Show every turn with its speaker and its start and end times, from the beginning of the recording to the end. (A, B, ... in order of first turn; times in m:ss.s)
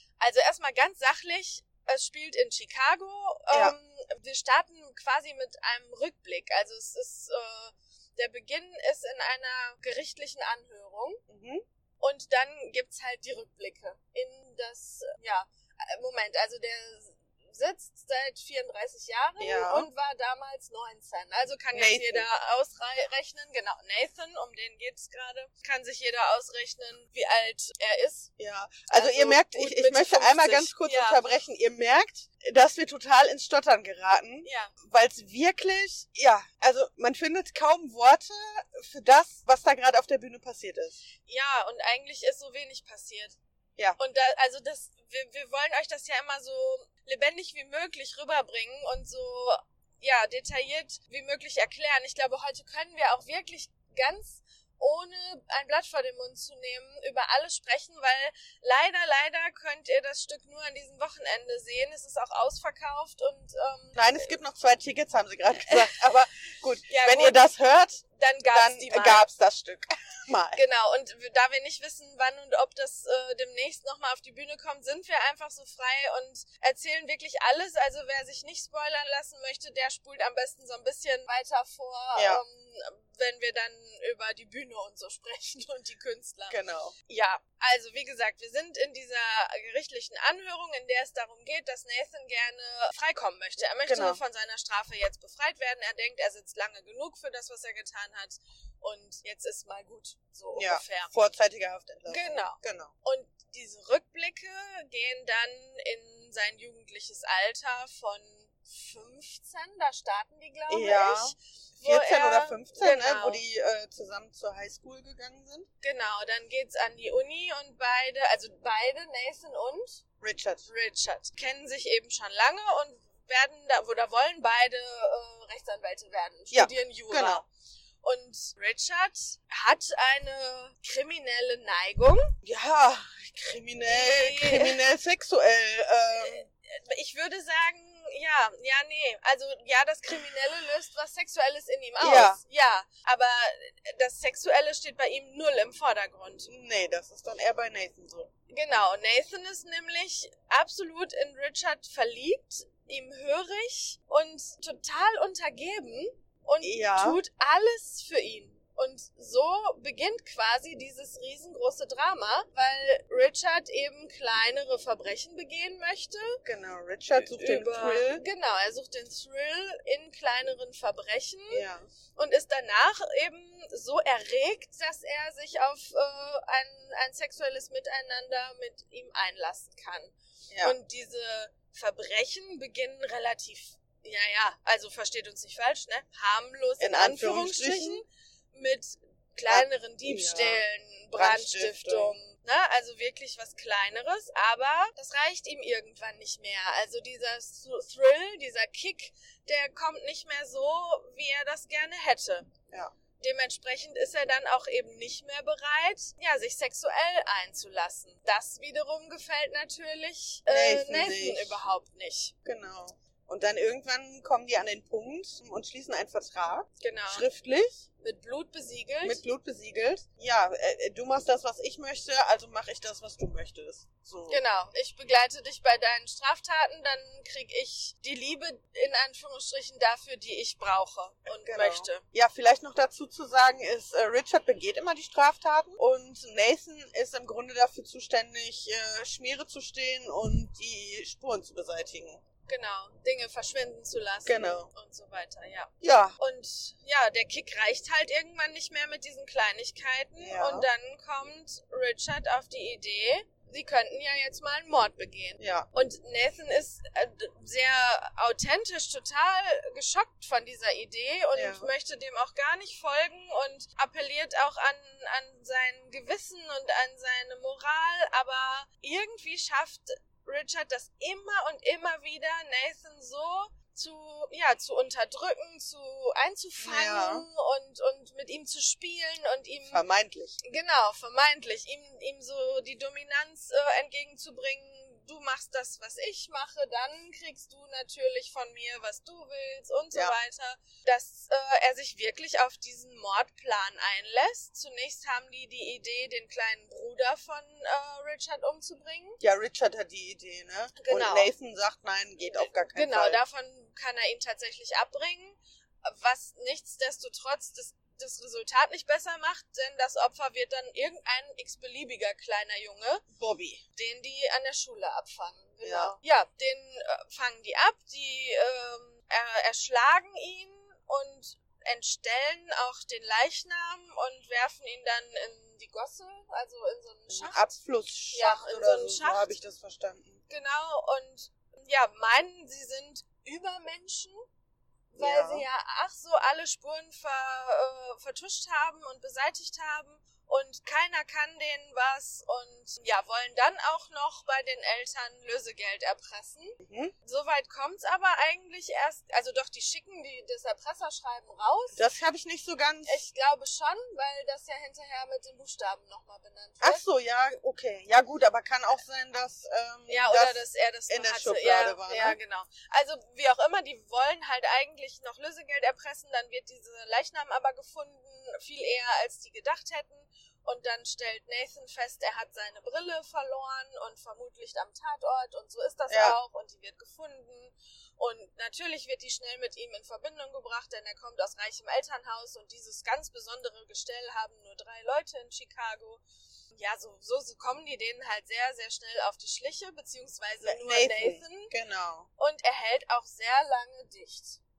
0:00.2-0:11.2 A
0:03.5-0:03.8 B
0:11.3-0:11.6 B
0:12.0-0:28.3 A
0:19.4-0:19.9 B
0:21.7-0:22.3 B
0:28.4-0:41.0 B
0:28.9-0:31.2 A
0:34.4-0:34.7 A
0:41.2-0:43.4 A
0:44.0-1:04.3 A
1:03.9-1:10.6 B
1:05.6-1:05.8 A
1:06.9-1:07.4 A
1:08.1-1:09.3 A
1:10.5-1:41.1 A
1:22.2-1:22.4 B
1:26.5-1:26.9 B
1:33.8-1:34.2 B
1:40.5-1:42.9 B
1:42.1-1:53.4 A
1:50.7-1:55.7 B
1:55.8-2:00.0 A
2:00.2-2:00.7 B
2:00.7-2:07.5 A
2:06.5-2:07.4 B
2:08.0-2:12.3 A
2:12.4-2:16.4 B
2:13.9-2:14.8 A
2:16.2-2:26.5 A
2:22.0-2:22.4 B
2:26.5-2:28.3 B
2:28.5-2:46.4 A
2:36.6-2:37.2 B
2:46.4-2:48.2 B
2:47.2-3:22.5 A
2:51.5-2:51.8 B
3:00.5-3:00.7 B
3:06.8-3:08.0 B
3:09.5-3:10.6 B
3:11.1-3:12.2 B
3:23.2-3:32.3 A
3:30.5-3:31.6 B
3:32.4-3:37.8 B
3:36.8-3:37.3 A
3:38.0-3:39.2 A
3:39.0-3:44.4 B
3:44.3-3:52.0 A
3:51.3-4:02.2 B
4:02.5-4:39.8 A
4:04.2-4:04.7 B
4:05.8-4:06.2 B
4:10.2-4:10.7 B
4:15.4-4:15.7 B
4:21.3-4:21.7 B
4:36.6-4:37.3 B
4:39.7-4:40.4 B
4:40.4-4:59.2 A
4:59.2-5:03.2 B
5:00.8-5:01.3 A
5:02.2-5:13.0 A
5:13.1-5:13.6 B
5:13.8-5:27.4 A
5:15.6-5:16.0 B
5:27.1-5:30.2 B
5:28.1-5:29.3 A
5:30.3-5:34.2 A
5:34.9-5:51.8 A
5:35.0-5:35.5 B
5:46.6-5:46.9 B
5:51.7-5:53.0 B
5:52.8-5:56.8 A
5:56.6-6:02.2 B
5:59.9-6:26.0 A
6:15.9-6:16.2 B
6:26.5-6:31.5 A
6:30.4-6:32.1 B
6:32.2-6:34.4 A